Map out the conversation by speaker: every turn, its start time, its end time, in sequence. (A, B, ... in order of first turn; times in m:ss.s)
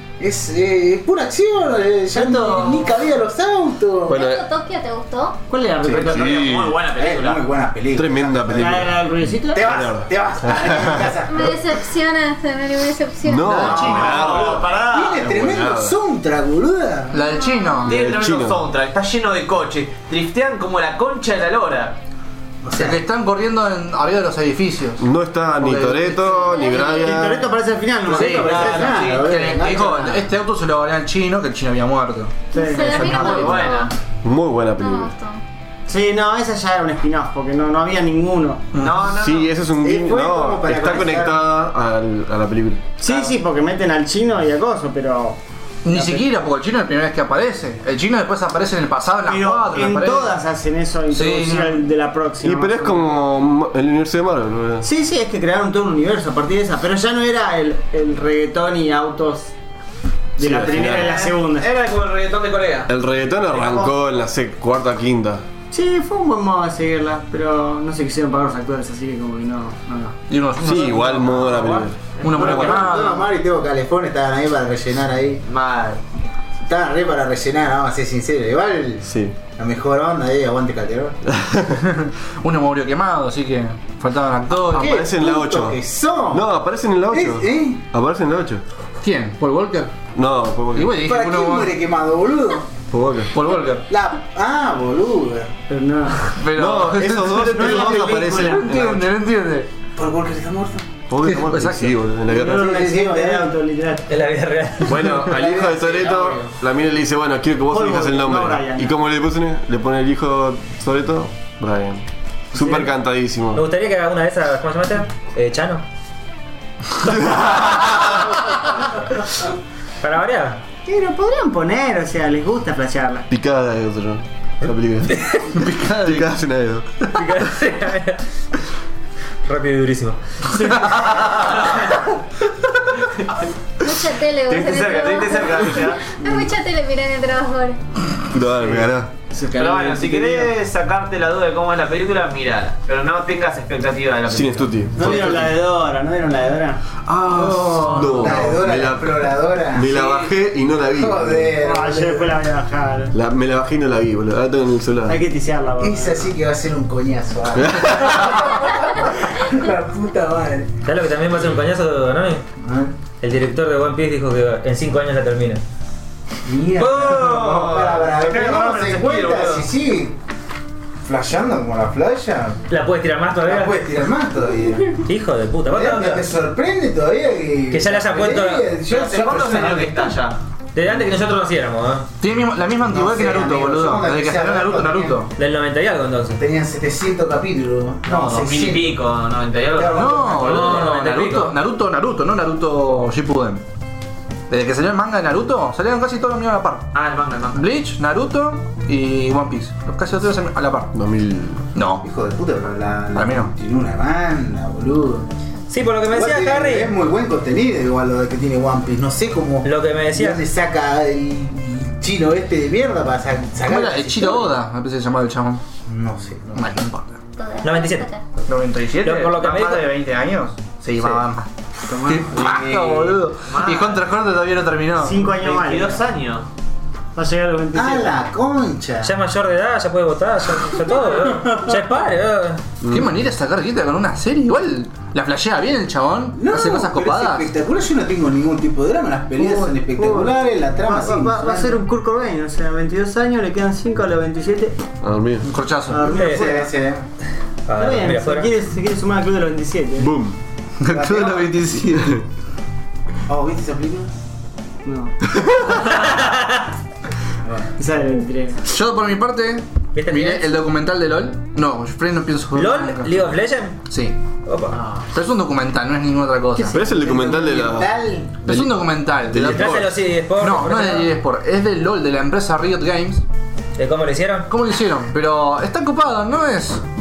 0:00.2-0:04.2 A
0:02.4-0:02.7 B
0:02.5-0:02.8 C
0:04.0-0:05.4 D
0:04.1-0:04.4 E
0:05.5-0:06.4 C
0:05.8-0:06.2 A
0:05.8-0:07.5 F
0:06.1-0:06.8 E
0:06.9-0:09.0 A
0:07.9-0:09.0 E
0:08.5-0:09.7 C
0:09.5-0:11.6 A
0:09.6-0:11.2 E
0:11.3-0:13.7 D
0:13.2-0:16.0 E
0:13.4-0:17.2 A
0:13.7-0:15.3 F
0:17.1-0:18.0 B
0:17.3-0:17.9 D
0:17.8-0:18.6 E
0:17.8-0:22.0 F
0:22.6-0:23.0 A
0:22.7-0:26.6 B
0:25.0-0:27.5 E
0:26.4-0:27.2 D
0:26.8-0:29.2 C
0:28.0-0:30.2 A
0:28.1-0:33.7 B
0:28.4-0:29.2 F
0:32.5-0:33.9 D
0:32.5-0:33.0 C
0:32.7-0:33.9 F
0:34.2-0:35.1 E
0:34.8-0:35.4 D
0:35.9-0:38.7 C
0:38.7-0:39.0 B
0:38.8-0:39.5 F
0:39.2-0:42.8 E
0:39.8-0:41.4 A
0:43.0-0:46.3 C
0:43.0-0:43.4 F
0:45.8-0:50.4 B
0:49.2-0:53.1 C
0:51.1-0:51.8 B
0:52.4-0:54.8 E
0:54.8-0:59.5 C
1:00.4-1:01.7 C
1:00.4-1:01.1 E
1:00.5-1:02.9 F
1:02.9-1:05.4 E
1:03.6-1:03.9 C
1:05.7-1:10.2 C
1:10.3-1:13.3 B
1:10.6-1:12.1 E
1:12.2-1:12.6 F
1:12.2-1:15.4 A
1:15.4-1:16.0 F
1:16.6-1:21.2 A
1:19.0-1:19.4 E
1:21.3-1:21.8 E
1:21.9-1:25.0 B
1:24.6-1:26.5 A
1:24.7-1:25.8 E
1:26.3-1:28.6 E
1:27.1-1:27.8 A
1:29.0-1:29.9 B
1:30.1-1:31.0 E
1:30.7-1:31.7 B
1:31.0-1:32.7 A
1:32.9-1:33.3 E
1:33.3-1:33.8 B
1:33.9-1:35.5 A
1:35.7-1:36.4 C
1:36.3-1:39.7 B
1:36.5-1:39.1 E
1:37.4-1:38.6 C
1:40.0-1:40.9 A
1:41.1-1:42.7 E
1:41.2-1:42.0 B
1:42.3-1:44.0 C
1:42.3-1:43.5 A
1:44.1-1:45.2 G
1:44.8-1:53.6 E
1:45.2-1:46.5 A
1:47.7-1:48.9 C
1:52.5-1:52.9 C
1:53.5-1:55.8 G
1:57.0-1:58.1 E
2:00.0-2:00.6 G
2:00.8-2:03.2 C
2:03.3-2:06.9 E
2:05.5-2:06.3 B
2:07.1-2:08.2 G
2:09.4-2:10.2 G
2:10.6-2:11.0 B
2:11.4-2:11.8 F
2:13.8-2:17.8 D
2:14.5-2:16.0 F
2:16.2-2:16.5 C
2:18.3-2:19.1 E
2:18.6-2:20.5 C
2:19.5-2:24.7 F
2:24.3-2:25.5 E
2:25.0-2:26.8 C
2:27.0-2:31.6 E
2:27.3-2:29.9 A
2:29.8-2:30.3 F
2:30.9-2:32.4 A
2:31.6-2:33.1 C
2:33.1-2:35.2 E
2:35.1-2:36.3 C
2:35.8-2:40.7 A
2:37.5-2:38.5 E
2:40.8-2:42.4 G
2:42.6-2:42.9 A
2:43.2-2:45.6 G
2:46.4-2:50.1 A
2:46.8-2:49.7 F
2:51.0-2:52.6 A
2:52.7-2:53.8 G
2:53.4-2:55.1 A
2:55.0-2:56.2 G
2:55.7-3:00.2 A
2:57.7-2:58.7 G
2:58.9-3:00.4 F
3:00.7-3:02.1 G
3:02.2-3:05.3 B
3:02.9-3:05.2 A
3:05.4-3:06.4 G
3:06.4-3:09.0 A
3:08.0-3:11.5 F
3:09.7-3:10.8 A
3:09.9-3:13.6 B
3:14.5-3:16.9 B
3:16.9-3:17.6 F
3:17.5-3:20.9 B
3:20.9-3:21.6 E
3:21.7-3:22.0 B
3:22.0-3:25.3 A
3:23.1-3:23.5 B
3:25.7-3:26.9 G
3:26.1-3:34.5 A
3:29.6-3:30.4 G
3:33.6-3:35.6 B
3:35.9-3:36.8 A
3:36.5-3:37.2 B
3:37.4-3:38.2 D
3:37.6-3:38.0 G
3:38.5-3:41.5 B
3:39.0-3:39.8 G
3:41.9-3:43.2 A
3:42.0-3:45.2 B
3:43.5-3:44.0 F
3:45.0-3:46.0 C
3:45.2-3:46.5 F
3:47.1-3:48.1 C
3:47.7-3:49.1 A
3:49.0-3:52.6 G
3:50.7-3:52.0 A
3:52.8-3:53.1 E
3:52.9-3:57.5 B
3:56.4-4:01.8 A
3:59.4-4:04.7 C
4:05.0-4:05.5 E
4:05.4-4:06.1 B
4:05.9-4:06.7 C
4:06.0-4:07.0 A
4:06.1-4:06.4 G
4:07.7-4:08.5 G
4:07.7-4:10.1 C
4:10.0-4:10.4 E
4:10.8-4:12.2 B
4:10.9-4:11.6 A
4:11.9-4:12.2 E
4:13.3-4:14.1 A
4:14.8-4:15.2 C
4:15.9-4:16.6 G
4:17.4-4:17.7 A
4:17.8-4:18.6 C
4:18.6-4:24.2 B
4:19.9-4:20.5 G
4:22.5-4:23.8 G
4:24.4-4:24.8 G
4:24.7-4:25.1 A
4:25.1-4:26.8 B
4:26.5-4:28.4 A
4:26.7-4:27.9 E
4:28.4-4:33.2 B
4:28.5-4:28.7 E
4:29.3-4:30.0 E
4:29.4-4:31.1 G
4:33.8-4:34.5 G
4:34.5-4:36.8 B